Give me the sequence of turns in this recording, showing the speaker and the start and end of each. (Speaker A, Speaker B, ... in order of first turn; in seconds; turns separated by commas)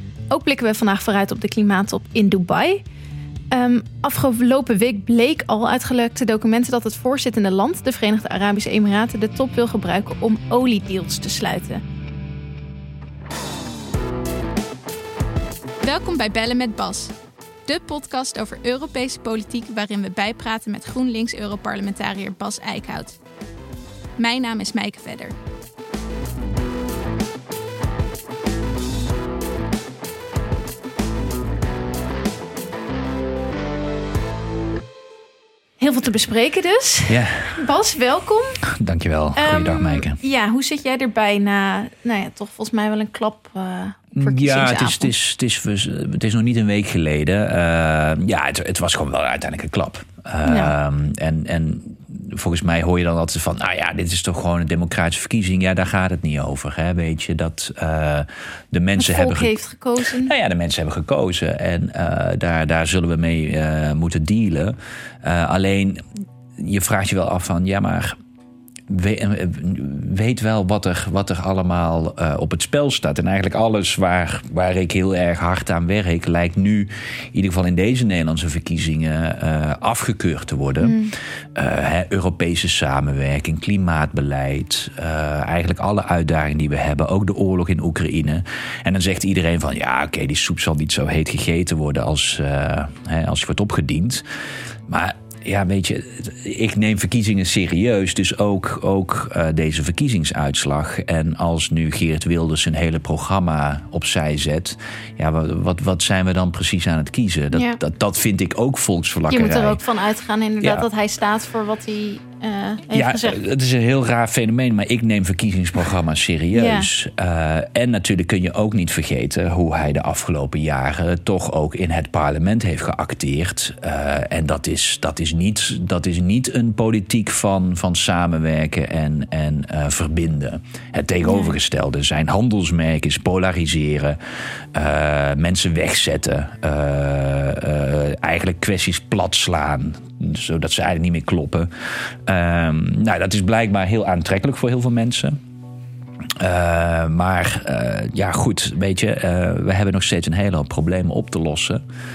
Speaker A: 0.3-2.8, Speaker A: 3.5-11.8, Speaker A: 15.8-17.1, Speaker A: 17.7-23.2, Speaker A: 24.2-25.4, Speaker A: 35.8-38.6, Speaker B: 37.1-37.6, Speaker B: 38.6-40.2, Speaker A: 39.4-45.1, Speaker B: 44.1-59.5, Speaker A: 50.4-50.7, Speaker A: 59.0-60.3, Speaker B: 60.1-68.2, Speaker B: 68.9-81.0, Speaker A: 80.8-81.1, Speaker B: 81.5-94.2, Speaker B: 94.9-109.8, Speaker A: 107.5-107.8, Speaker A: 109.3-113.4, Speaker B: 112.9-134.2, Speaker A: 116.5-116.9, Speaker A: 131.2-131.6, Speaker B: 134.7-141.7, Speaker B: 142.3-145.4, Speaker B: 146.4-151.8